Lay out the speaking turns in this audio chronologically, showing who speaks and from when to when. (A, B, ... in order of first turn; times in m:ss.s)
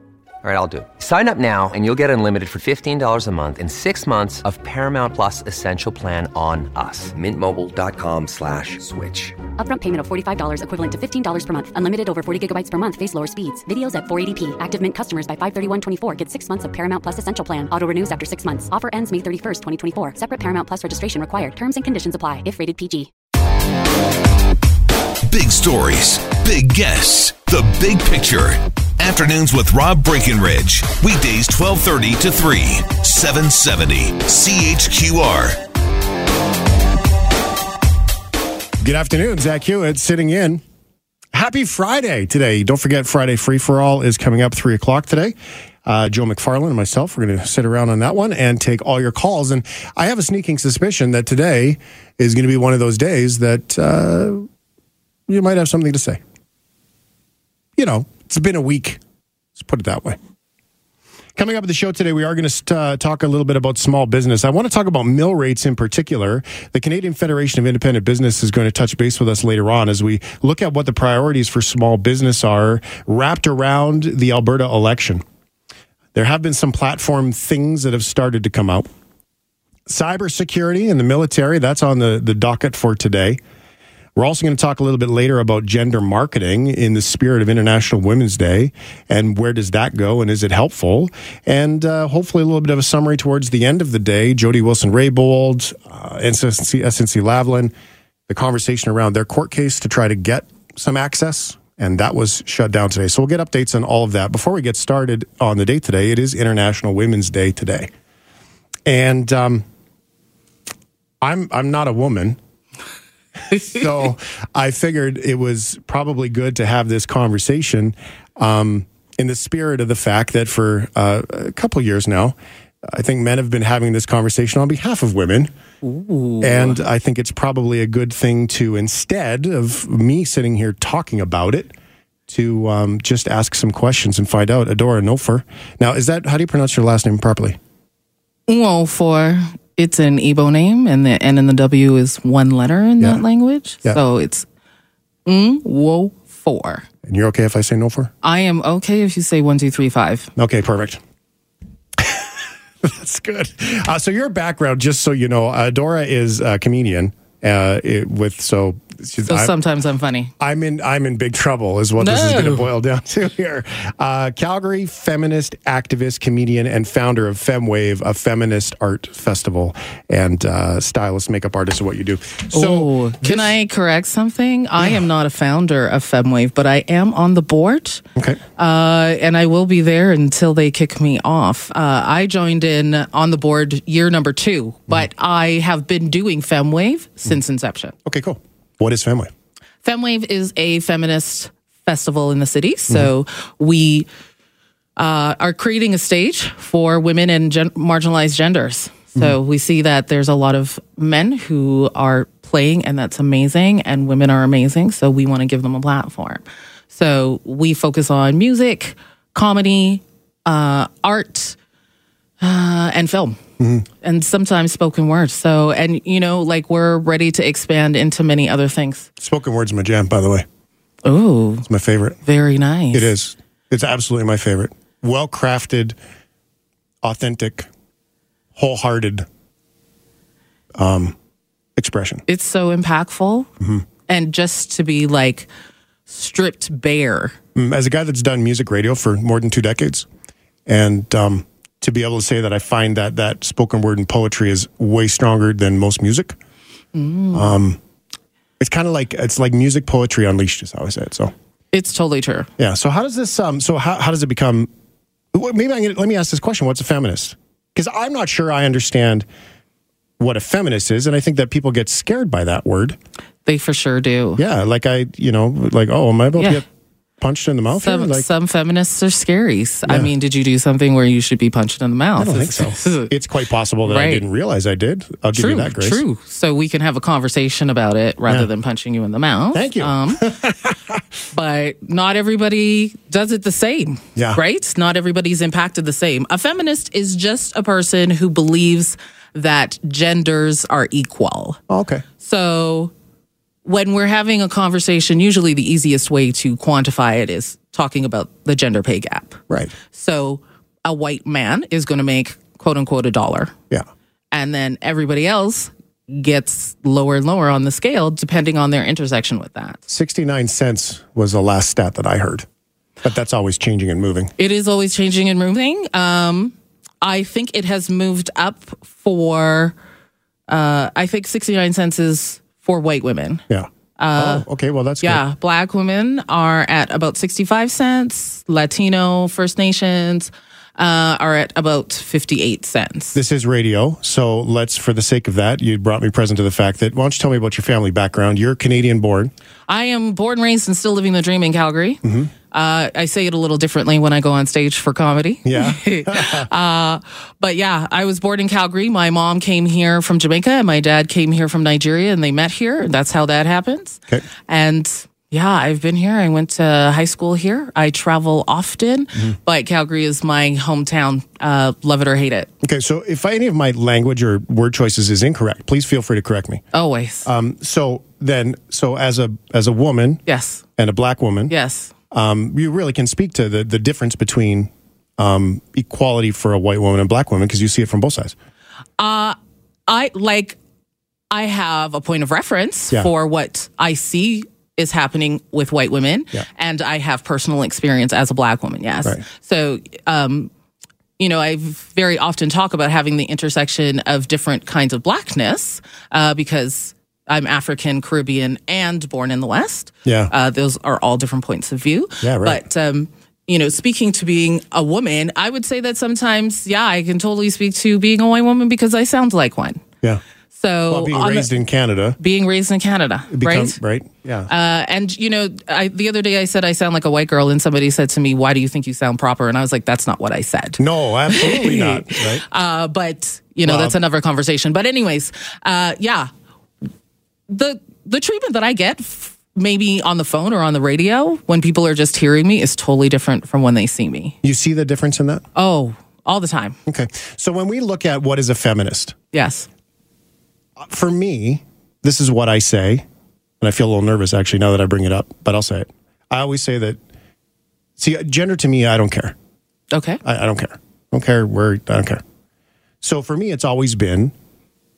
0:00.4-0:09.5 A
0:09.6-0:23.1 B
0:25.3-0:35.6 C
0:38.8-0:40.6 D
0:41.3-0:45.4 D
0:45.9-0:54.5 D
0:55.3-0:56.2 D
0:57.8-0:59.0 D
0:59.6-1:00.2 D
1:01.4-1:15.2 D
1:16.2-1:18.9 D
1:19.9-1:23.4 D
1:24.2-1:37.7 D
1:38.3-1:47.9 D
1:48.9-1:49.7 D
1:51.2-1:52.4 D
1:53.5-2:02.4 D
2:02.9-2:05.5 D
2:05.8-2:06.8 E
2:06.4-2:11.7 D
2:12.3-2:17.6 D
2:18.5-2:24.5 E
2:25.3-2:26.9 E
2:27.0-2:28.1 D
2:28.2-2:30.3 E
2:30.4-2:31.0 D
2:32.0-2:32.3 D
2:32.8-2:39.5 D
2:39.3-2:40.3 E
2:40.4-2:53.6 D
2:42.0-2:42.7 E
2:52.5-2:58.0 E
2:58.6-3:08.0 E
3:08.1-3:09.3 D
3:09.8-3:14.1 E
3:15.0-3:31.6 E
3:32.4-3:33.4 E
3:33.6-3:33.9 D
3:34.0-3:39.1 E
3:39.2-3:40.4 D
3:41.0-3:41.7 E
3:41.7-3:42.2 D
3:42.2-3:43.2 E
3:42.9-3:46.0 D
3:47.0-3:47.7 D
3:48.6-3:49.3 D
3:50.8-3:51.2 D
3:51.8-3:52.2 D
3:52.3-3:53.5 E
3:53.6-3:53.8 D
3:54.1-3:55.5 E
3:56.1-3:57.4 E
3:57.6-4:00.1 D
4:00.7-4:06.4 D
4:06.9-4:07.6 E
4:07.3-4:07.8 D
4:08.6-4:11.3 D
4:11.7-4:12.5 E
4:12.6-4:14.7 D
4:15.3-4:19.3 D
4:20.2-4:23.0 D
4:23.4-4:24.4 E
4:24.4-4:26.7 D
4:27.2-4:28.3 D
4:27.7-4:33.1 E
4:29.9-4:30.1 D
4:32.2-4:36.0 D
4:33.8-4:34.2 E
4:35.3-4:40.3 E
4:39.5-4:41.0 D
4:41.3-4:51.6 E
4:44.2-4:44.4 D
4:51.7-4:52.0 D
4:52.2-4:52.9 E
4:53.6-5:03.5 E
4:59.5-4:59.7 D
5:04.3-5:09.8 E
5:09.9-5:12.5 D
5:13.0-5:14.3 D
5:14.4-5:19.8 E
5:20.5-5:23.4 E
5:23.5-5:25.2 D
5:24.0-5:24.5 E
5:25.0-5:33.2 E
5:33.2-5:39.3 D
5:39.7-6:02.5 E
5:42.0-5:42.3 D
5:45.5-5:46.5 D
6:02.6-6:06.6 D
6:06.7-6:07.3 E
6:07.2-6:10.2 D
6:10.3-6:10.6 E
6:10.8-6:11.5 D
6:11.5-6:11.9 E
6:12.1-6:18.4 D
6:19.0-6:19.4 E
6:19.9-6:20.6 E
6:21.3-6:30.5 E
6:31.2-6:49.8 E
6:40.0-6:40.3 D
6:42.2-6:42.6 D
6:50.5-6:51.6 E
6:50.9-6:52.2 D
6:52.2-6:53.8 E
6:53.3-6:54.5 D
6:54.5-7:06.3 E
7:00.8-7:02.4 D
7:03.6-7:04.0 D
7:07.5-7:14.4 E
7:14.4-7:15.4 D
7:15.6-7:16.8 E
7:16.9-7:19.2 D
7:19.3-7:19.7 E
7:20.8-7:23.0 D
7:23.6-7:27.0 D
7:28.0-7:29.4 D
7:29.9-7:30.2 E
7:30.2-7:32.2 D
7:33.0-7:34.3 D